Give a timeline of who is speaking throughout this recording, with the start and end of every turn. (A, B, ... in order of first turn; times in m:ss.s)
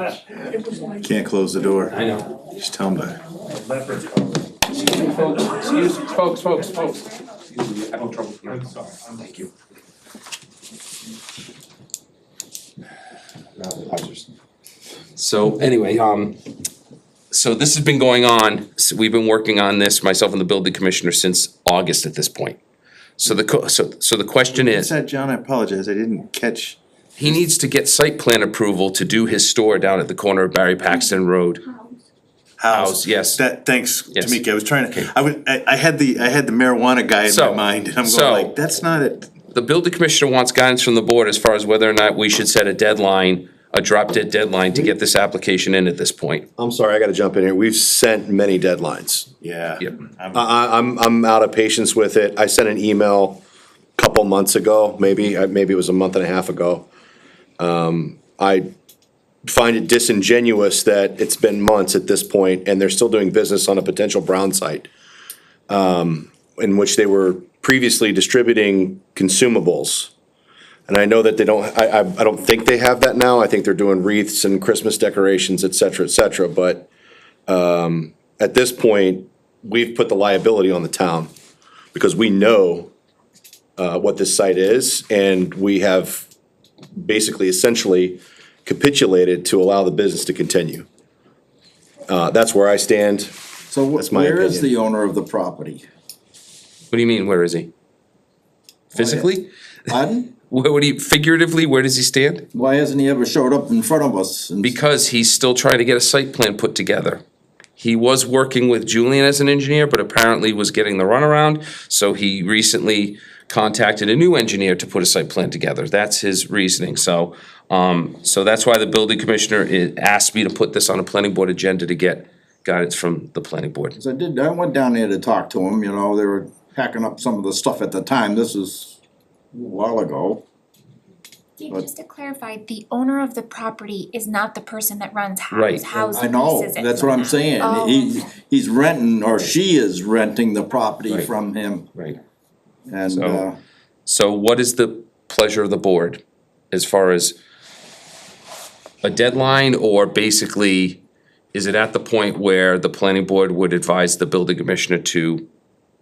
0:01.0-0:02.0 A
0:01.9-0:02.3 B
0:02.6-0:03.2 A
0:04.7-0:09.5 B
0:13.6-0:14.2 B
0:15.2-0:16.4 B
0:17.3-0:22.6 B
0:23.2-0:24.9 B
0:24.5-0:27.4 A
0:27.2-0:31.6 B
0:32.6-0:39.3 A
0:32.7-0:33.4 B
0:34.1-0:34.4 B
0:37.3-0:38.5 B
0:39.5-0:46.4 B
0:46.6-0:49.3 C
0:49.4-0:50.5 A
0:50.3-0:53.4 C
0:54.0-0:56.9 C
0:57.6-0:58.7 C
0:59.4-1:04.9 C
1:05.7-1:10.1 C
1:10.9-1:16.9 C
1:17.5-1:21.3 C
1:21.9-1:22.9 C
1:23.8-1:26.3 C
1:27.0-1:30.9 C
1:32.1-1:33.3 C
1:33.7-1:35.8 D
1:34.0-1:34.7 C
1:36.9-1:37.7 B
1:38.9-1:42.5 B
1:39.0-1:39.3 D
1:39.9-1:40.3 D
1:42.5-1:44.8 D
1:44.6-1:47.2 B
1:47.8-2:04.0 B
2:04.0-2:09.0 D
2:09.5-2:10.4 D
2:11.6-2:18.2 E
2:15.5-2:15.9 B
2:15.9-2:21.9 D
2:22.0-2:22.2 B
2:22.9-2:23.6 D
2:23.1-2:23.5 B
2:24.1-2:27.4 B
2:29.0-2:31.0 B
2:31.5-2:35.4 B